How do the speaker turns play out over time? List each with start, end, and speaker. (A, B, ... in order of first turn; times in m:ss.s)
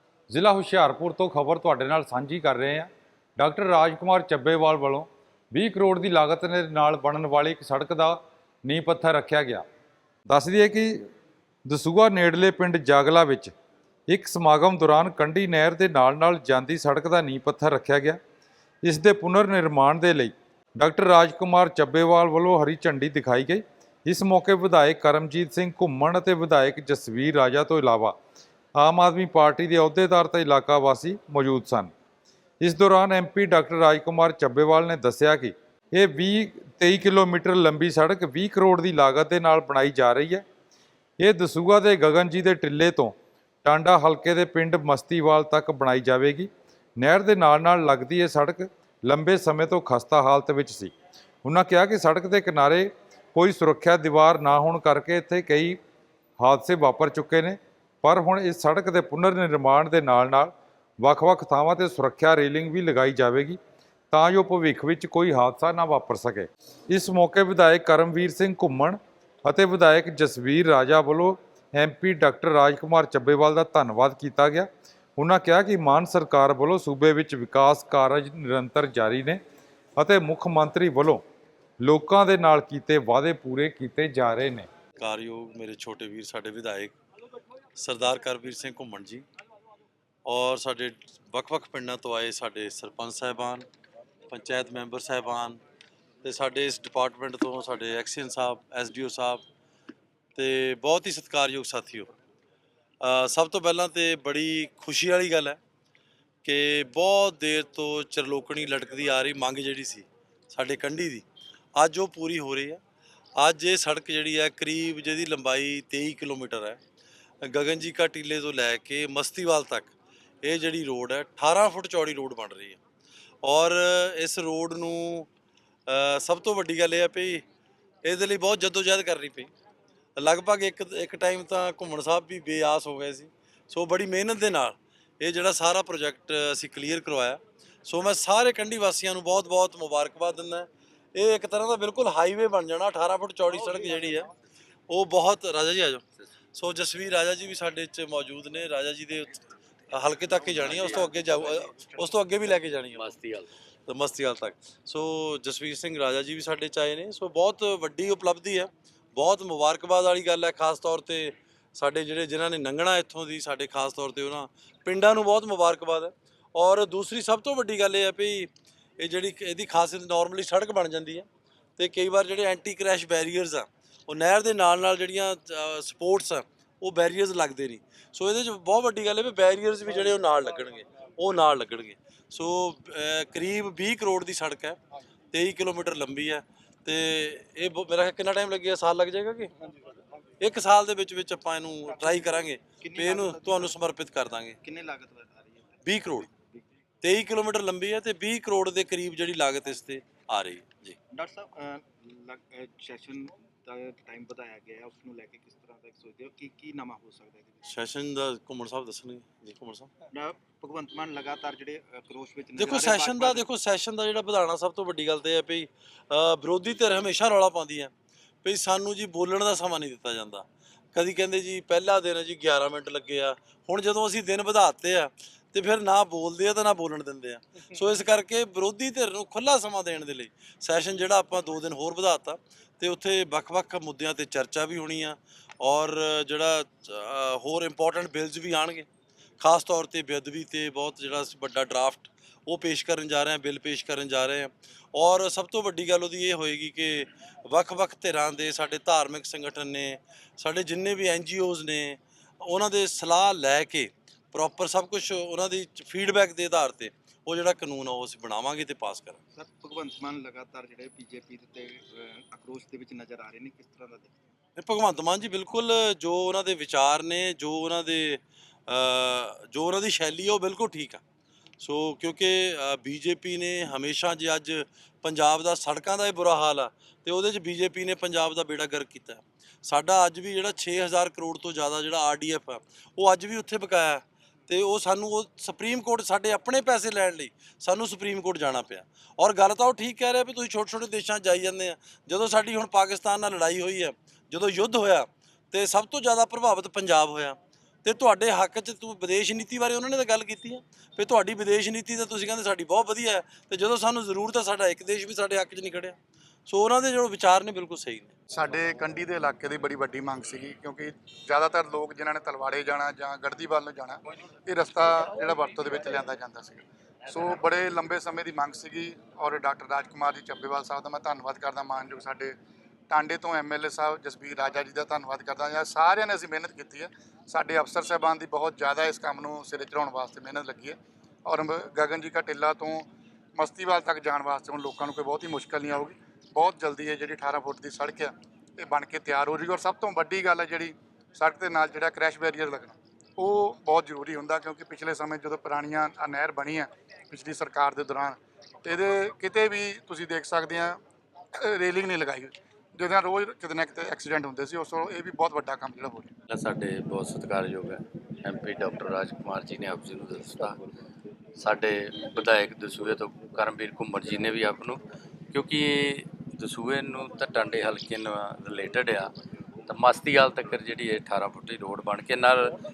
0:00.3-0:09.6 A
0:10.3-0:11.1 A
0:11.7-0:13.5 A
0:14.1-0:18.2 A
0:18.8-0:28.2 A
0:28.8-0:31.9 A
0:32.6-0:40.4 A
0:41.2-0:50.9 A
0:51.4-0:55.8 A
0:56.4-1:03.6 A
1:04.1-1:19.4 A
1:20.0-1:21.2 A
1:21.8-1:24.7 A
1:25.0-1:27.0 B
1:27.8-1:29.2 B
1:30.3-1:33.6 B
1:34.3-1:35.6 B
1:36.2-1:39.4 B
1:40.4-1:42.1 B
1:43.0-1:45.6 B
1:46.4-1:51.2 B
1:51.8-1:52.8 B
1:53.4-1:56.8 B
1:57.4-1:59.9 B
2:00.4-2:02.8 B
2:03.4-2:05.3 B
2:05.9-2:07.4 B
2:08.0-2:09.5 B
2:10.2-2:24.3 B
2:24.9-2:26.0 B
2:26.5-2:29.4 B
2:29.9-2:33.1 B
2:33.0-2:33.5 C
2:33.9-3:04.8 B
3:05.3-3:09.5 B
3:10.4-3:14.6 B
3:12.8-3:13.7 D
3:14.6-3:16.6 D
3:15.8-3:16.3 B
3:17.0-3:21.0 B
3:21.1-3:27.6 D
3:27.6-3:29.9 B
3:30.1-3:33.4 D
3:32.6-3:37.9 B
3:38.4-3:58.9 B
3:59.4-4:19.2 B
4:19.4-4:24.1 D
4:24.6-4:31.0 B
4:31.6-5:08.2 B
5:08.3-5:22.4 E
5:22.9-5:50.8 E
5:51.4-5:56.1 E
5:56.3-6:00.6 C
6:01.4-6:09.1 C
6:09.7-6:12.6 C